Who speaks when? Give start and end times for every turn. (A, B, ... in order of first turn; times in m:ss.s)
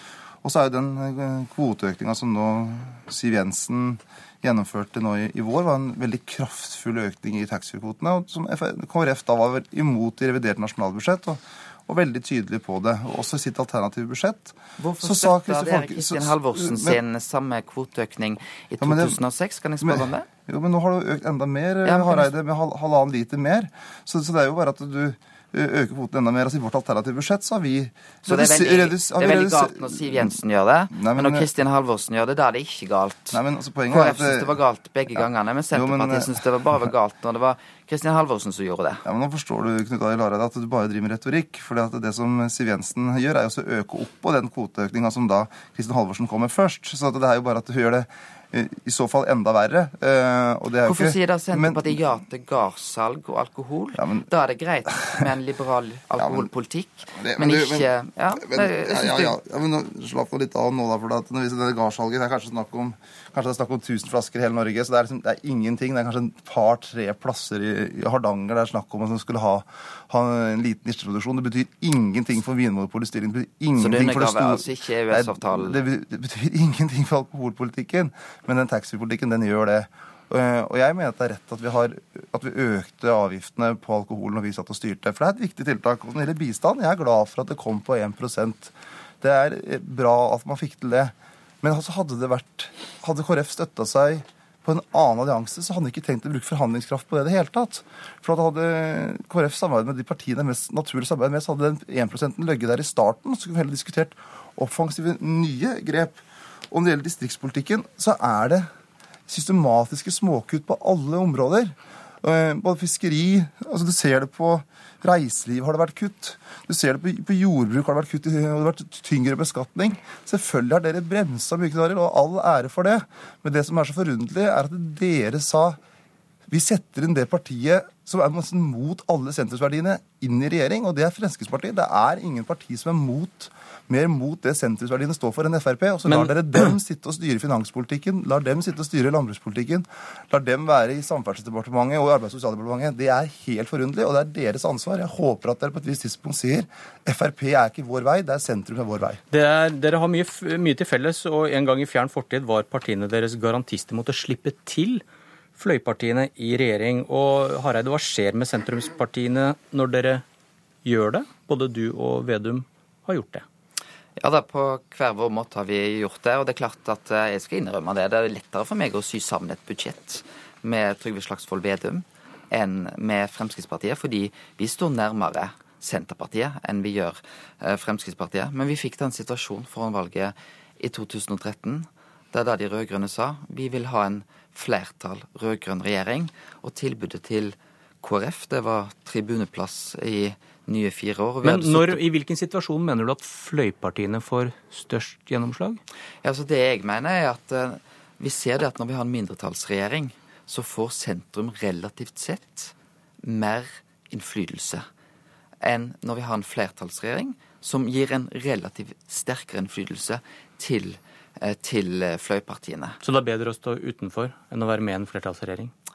0:00.4-0:17.0 A
0:14.8-0:20.3 B
0:18.8-0:19.2 A
0:19.8-0:30.3 A
0:21.8-0:22.3 B
0:28.3-0:33.4 B
0:30.9-0:31.5 A
0:33.3-0:34.6 A
0:33.9-0:39.0 B
0:35.2-0:36.9 A
0:39.0-0:52.0 A
0:50.8-0:59.4 B
0:54.0-0:54.3 A
0:56.2-0:56.5 A
0:57.2-1:48.7 A
1:13.8-1:15.8 B
1:49.3-2:05.8 A
2:06.5-2:29.2 A
2:16.1-2:16.7 C
2:29.3-2:35.0 C
2:35.6-2:40.2 C
2:40.8-2:43.4 C
2:44.2-3:12.0 B
3:11.4-3:15.8 C
3:16.2-3:24.8 B
3:25.6-3:33.0 B
3:33.0-3:35.7 C